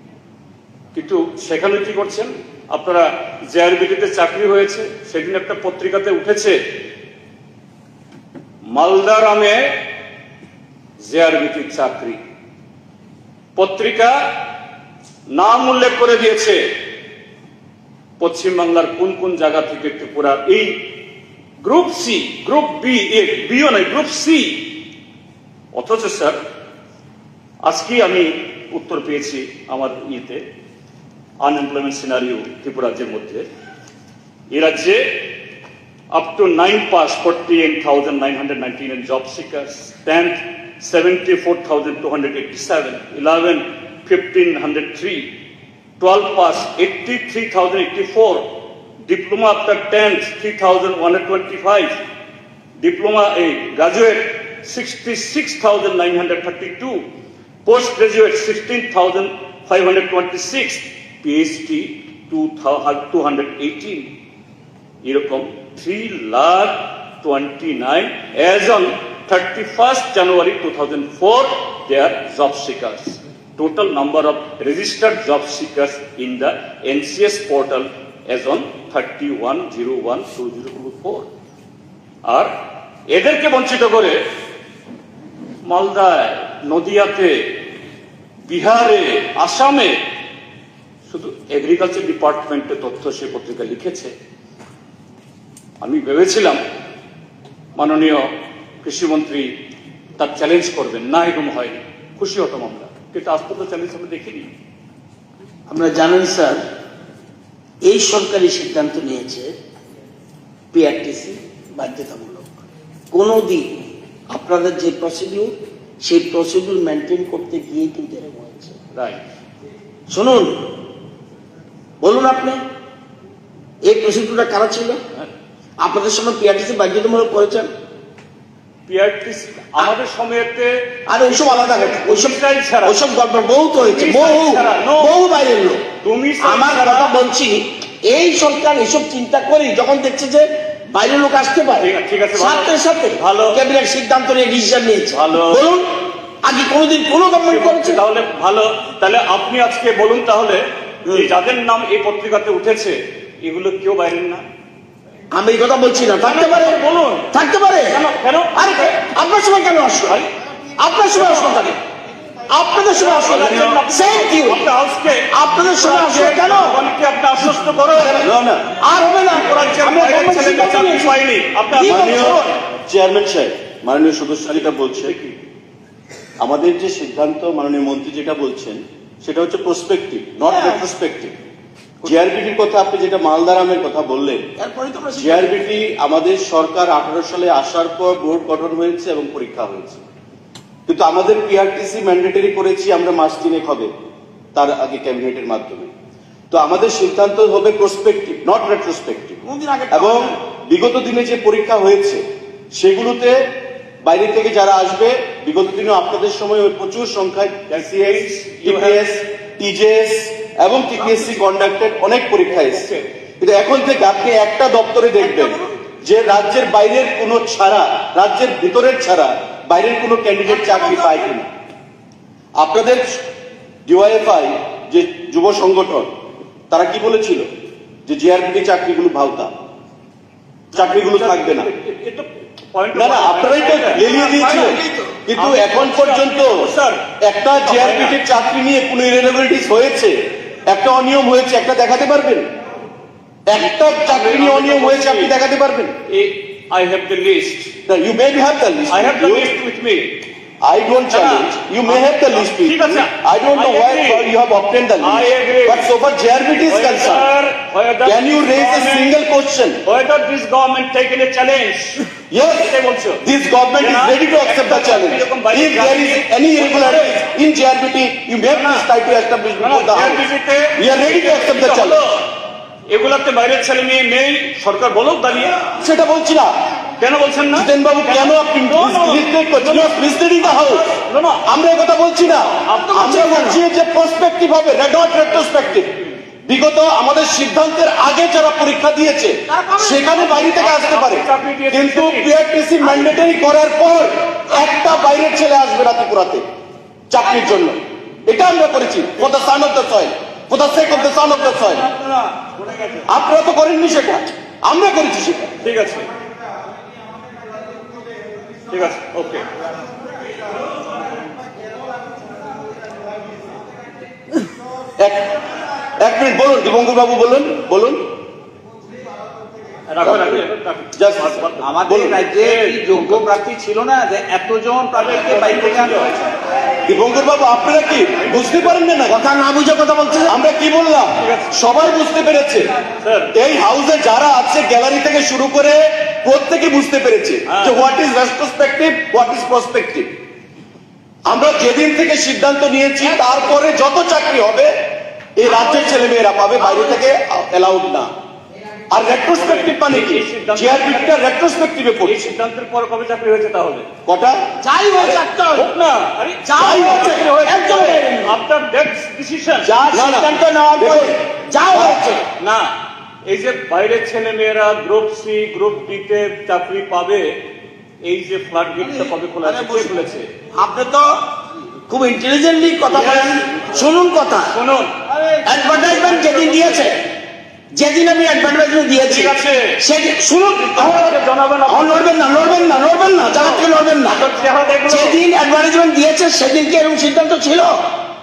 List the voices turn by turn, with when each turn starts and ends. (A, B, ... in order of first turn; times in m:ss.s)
0:01.0-0:06.6 A
0:08.7-0:09.9 A
0:11.0-0:12.2 A
0:13.6-0:14.4 A
0:15.3-0:16.8 A
0:18.2-0:21.0 A
0:21.6-0:24.8 A
0:25.7-0:26.4 A
0:27.6-0:30.5 A
0:31.4-0:33.5 A
0:34.5-0:35.4 A
0:36.1-0:45.4 A
0:46.0-0:52.0 A
0:52.8-0:57.1 A
0:57.6-1:04.1 A
1:05.0-1:21.3 A
1:22.2-1:22.5 A
1:23.1-1:24.3 A
1:25.6-1:27.7 A
1:28.5-1:30.0 A
1:31.1-1:34.1 A
1:35.8-1:36.6 A
1:37.8-1:39.6 A
1:40.2-1:44.5 A
1:45.7-1:46.6 B
1:47.8-1:49.5 B
1:50.7-1:58.8 B
1:58.9-1:59.2 A
2:00.1-2:00.7 B
2:02.0-2:02.6 B
2:03.8-2:05.0 B
2:05.8-2:07.7 B
2:08.9-2:13.0 A
2:11.1-2:15.8 B
2:13.8-2:15.2 A
2:16.0-2:17.1 A
2:16.4-2:25.9 B
2:21.8-2:23.6 A
2:25.1-2:25.6 A
2:26.4-2:28.0 B
2:27.4-2:34.5 A
2:35.3-2:36.8 B
2:36.2-2:37.3 A
2:37.3-2:40.2 B
2:37.9-2:39.0 A
2:40.8-2:41.8 B
2:42.5-2:44.6 B
2:42.9-2:48.3 A
2:43.4-2:43.8 C
2:45.3-2:46.8 B
2:48.0-2:48.8 C
2:48.8-2:52.5 B
2:49.2-2:52.5 A
2:51.8-2:55.2 C
2:54.5-2:55.4 A
2:56.4-3:01.4 C
3:00.4-3:00.8 B
3:02.0-3:04.5 C
3:04.6-3:05.6 B
3:05.2-3:10.0 C
3:10.9-3:13.9 C
3:14.6-3:15.9 C
3:16.5-3:23.5 C
3:19.4-3:20.4 B
3:24.0-3:41.5 C
3:27.7-3:29.0 A
3:32.5-3:33.1 A
3:42.6-3:43.2 C
3:43.9-3:46.1 C
3:46.7-3:47.5 C
3:48.0-3:49.5 C
3:50.7-3:51.7 C
3:50.7-3:54.8 A
3:52.9-4:02.5 C
3:54.1-3:55.0 B
3:55.4-3:57.1 A
3:57.6-3:58.2 A
4:03.5-4:05.9 C
4:03.8-4:05.3 A
4:06.1-4:07.7 A
4:07.8-4:09.6 C
4:08.9-4:10.2 A
4:10.6-4:17.3 C
4:11.1-4:14.3 A
4:15.0-4:15.9 A
4:16.6-4:19.1 A
4:18.0-4:19.8 C
4:19.8-4:23.2 A
4:22.3-4:32.0 C
4:23.8-4:27.2 A
4:28.4-4:28.9 A
4:29.6-4:32.3 A
4:32.9-4:35.7 A
4:35.7-4:36.5 C
4:37.0-4:41.5 A
4:37.5-4:40.9 C
4:41.4-4:56.5 C
4:42.6-4:43.3 A
4:42.8-4:43.6 B
4:45.2-4:46.2 A
4:49.5-4:50.3 B
4:50.1-4:52.3 A
4:57.1-5:01.9 C
5:02.0-5:03.0 A
5:03.1-5:05.6 C
5:05.6-5:06.1 A
5:08.7-5:09.5 A
5:15.0-5:15.4 C
5:16.0-5:18.2 C
5:19.9-5:23.3 A
5:20.0-5:22.3 C
5:21.6-5:26.1 D
5:25.0-5:26.3 A
5:26.8-5:29.2 C
5:28.2-5:28.7 A
5:29.1-5:30.4 B
5:30.3-5:32.7 C
5:31.2-5:31.5 A
5:33.0-5:33.4 A
5:33.3-5:40.2 C
5:37.5-5:37.8 A
5:41.3-5:48.1 C
5:48.9-5:52.4 C
5:49.3-5:51.2 A
5:52.0-5:53.9 A
5:54.0-5:54.5 C
5:54.6-5:55.7 B
5:55.0-5:59.7 A
5:56.4-5:58.4 B
5:56.6-5:57.2 C
5:59.6-6:01.2 C
5:59.8-6:02.2 B
6:01.7-6:02.2 C
6:02.4-6:02.8 A
6:03.3-6:07.4 A
6:08.0-6:10.3 A
6:09.4-6:09.9 B
6:10.6-6:11.2 B
6:11.9-6:14.6 B
6:12.9-6:13.6 A
6:14.5-6:15.0 A
6:15.4-6:17.0 B
6:15.7-6:17.0 A
6:17.7-6:21.2 B
6:19.0-6:19.8 A
6:20.5-6:22.4 A
6:21.7-6:24.2 B
6:23.3-6:25.2 A
6:24.9-6:27.8 B